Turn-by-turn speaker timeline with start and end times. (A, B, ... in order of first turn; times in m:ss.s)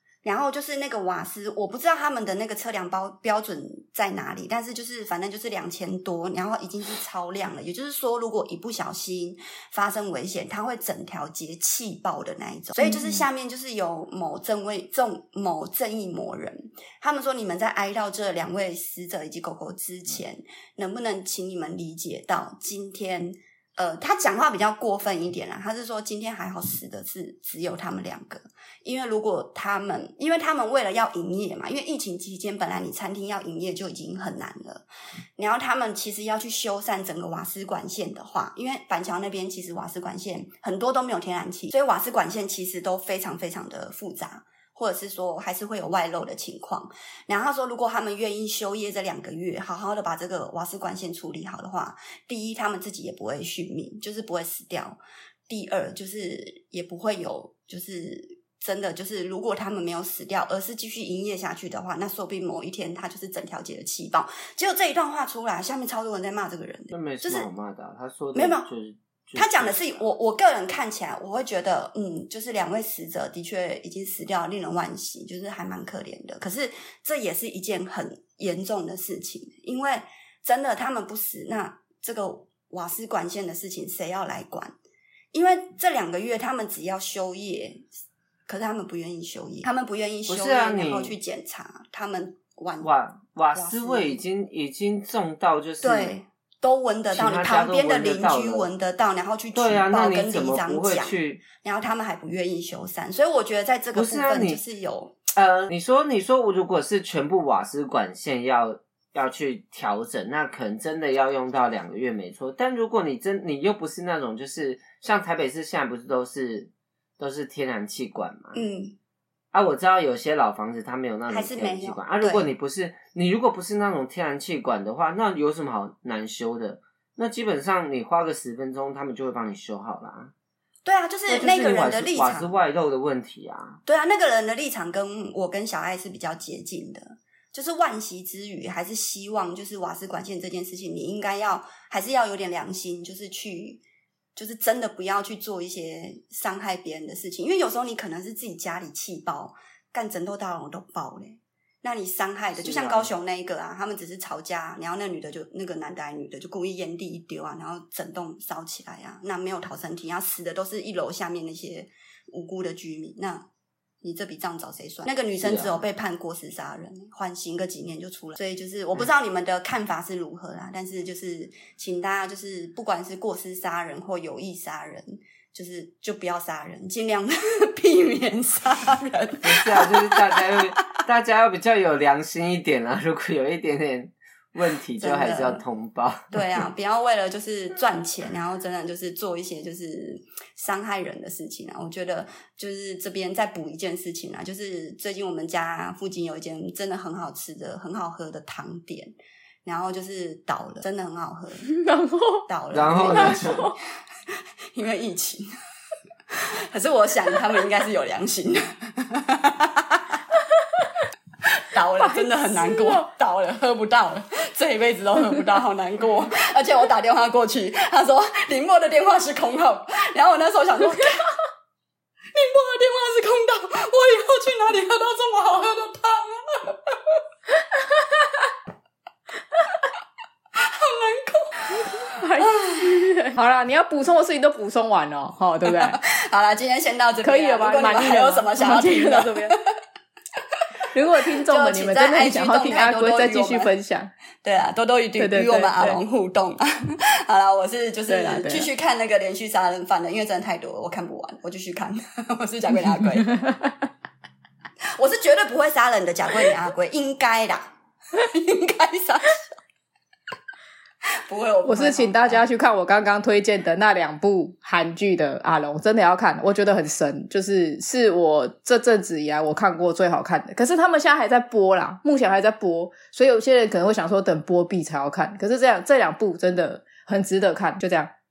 0:00.2-0:34.9 A
0:35.4-1:07.5 A
1:06.9-1:10.0 B
1:08.3-1:08.7 A
1:09.4-1:24.8 A
1:25.3-1:27.9 A
1:28.5-1:32.9 A
1:30.3-1:31.2 B
1:32.8-1:36.1 B
1:33.6-1:34.2 A
1:35.8-1:45.2 A
1:37.1-1:38.7 B
1:39.5-1:41.4 B
1:43.9-1:44.6 B
1:45.4-1:58.6 B
1:58.5-1:59.0 A
1:59.5-2:10.3 B
2:01.3-2:02.5 A
2:10.8-2:12.5 A
2:11.3-2:13.8 B
2:13.9-2:23.8 A
2:24.4-2:43.5 A
2:32.6-2:33.2 B
2:44.0-3:00.7 A
2:45.4-2:45.8 B
2:59.4-3:06.2 B
3:05.0-3:05.6 A
3:06.3-3:21.7 A
3:21.6-3:22.5 C
3:22.5-3:23.7 A
3:22.7-3:23.7 B
3:23.1-3:23.8 C
3:24.3-3:25.5 A
3:26.3-3:30.2 A
3:31.4-3:41.4 A
3:32.0-3:33.1 C
3:42.3-3:47.2 A
3:47.7-3:48.5 C
3:50.6-3:53.0 A
3:51.8-3:56.0 C
3:55.6-3:59.6 A
3:57.2-3:59.6 C
4:00.9-4:04.1 C
4:01.5-4:03.7 A
4:04.4-4:13.4 A
4:05.2-4:06.0 C
4:08.1-4:08.7 C
4:13.3-4:13.7 C
4:15.0-4:19.6 A
4:21.2-4:22.4 A
4:21.6-4:38.1 C